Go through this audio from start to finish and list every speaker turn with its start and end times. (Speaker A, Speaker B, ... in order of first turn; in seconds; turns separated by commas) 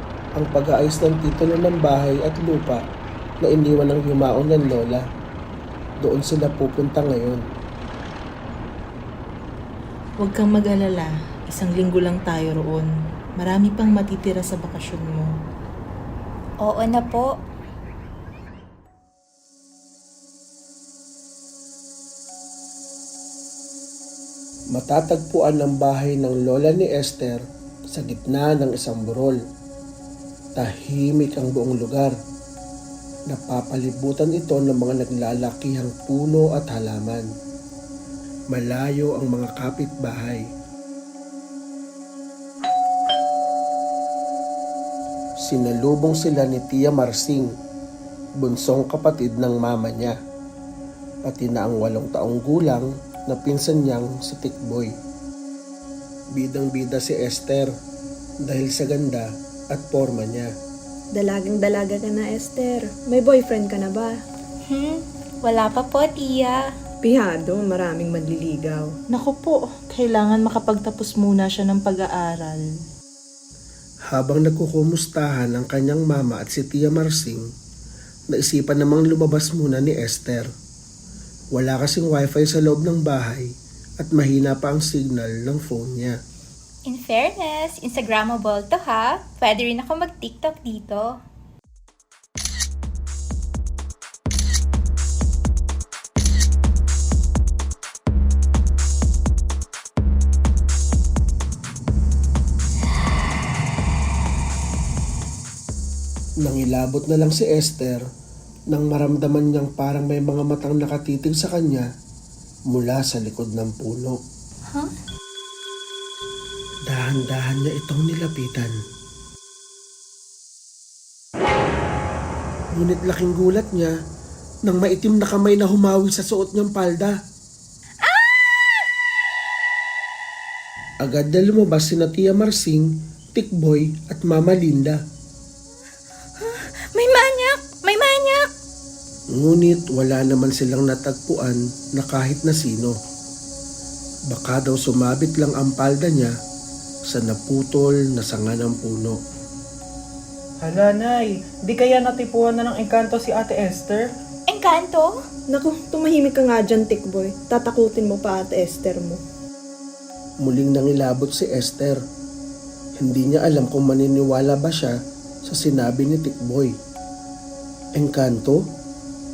Speaker A: 0.3-2.8, Speaker A: 3.4-5.0, Speaker A: 6.0-7.4, Speaker B: 10.2-15.3, Speaker C: 16.6-17.4, Speaker A: 24.7-29.4, Speaker A: 30.6-32.1, Speaker A: 33.3-37.3, Speaker A: 38.5-40.4, Speaker A: 45.4-47.5, Speaker A: 48.4-50.1, Speaker A: 51.2-54.9, Speaker A: 56.3-57.7, Speaker A: 58.4-60.5, Speaker D: 61.1-64.2, Speaker C: 64.7-66.7, Speaker D: 67.0-68.9, Speaker B: 69.1-72.6, Speaker A: 74.1-77.4, Speaker A: 78.3-80.5, Speaker A: 81.5-86.2, Speaker C: 86.8-91.2, Speaker A: 106.4-108.0, Speaker A: 108.7-111.9, Speaker A: 112.7-114.2, Speaker A: 116.9-118.7, Speaker A: 122.7-123.9, Speaker A: 124.6-127.2, Speaker A: 131.0-135.0, Speaker C: 136.4-138.5, Speaker A: 139.3-142.9, Speaker A: 144.3-146.3, Speaker A: 147.1-149.2, Speaker E: 150.6-154.1, Speaker C: 154.5-155.2, Speaker D: 155.5-159.2, Speaker A: 160.4-162.0, Speaker A: 163.0-166.7, Speaker A: 168.0-168.7